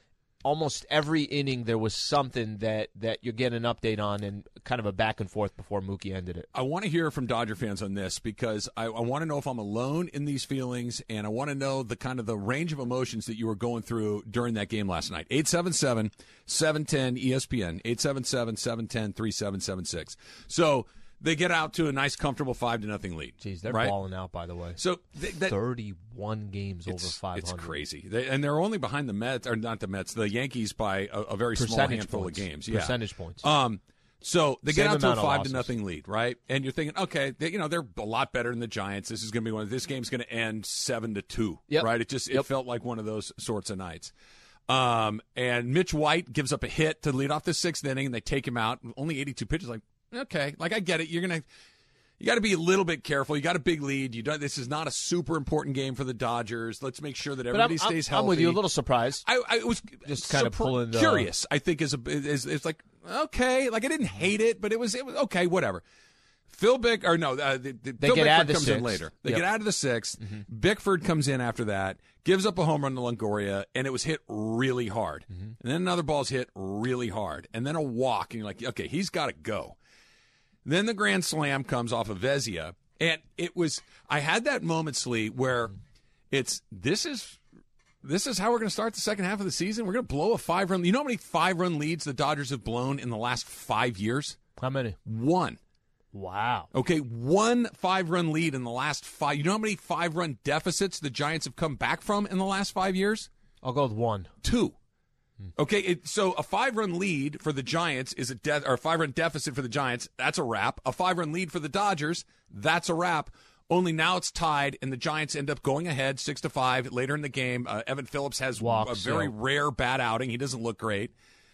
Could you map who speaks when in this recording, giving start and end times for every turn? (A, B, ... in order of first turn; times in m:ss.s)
0:00.4-0:06.5 A
0:06.5-0:23.9 B
0:23.4-0:24.8 A
0:24.8-0:25.6 B
0:25.4-0:27.8 A
0:26.9-0:44.1 B
0:31.6-0:33.4 A
0:34.7-0:35.7 A
0:41.7-0:42.4 A
0:44.7-0:51.4 B
0:52.2-0:58.6 B
0:57.5-0:59.2 A
0:59.2-1:05.8 B
1:00.0-1:01.3 A
1:06.5-1:19.8 B
1:08.0-1:09.4 A
1:20.6-1:25.7 B
1:26.3-1:27.4 B
1:28.0-1:34.4 B
1:34.6-1:35.0 A
1:35.0-1:35.6 B
1:36.1-1:36.7 A
1:36.7-1:43.3 B
1:43.6-1:44.3 A
1:44.4-1:44.7 B
1:45.6-2:01.1 B
1:58.6-1:59.3 A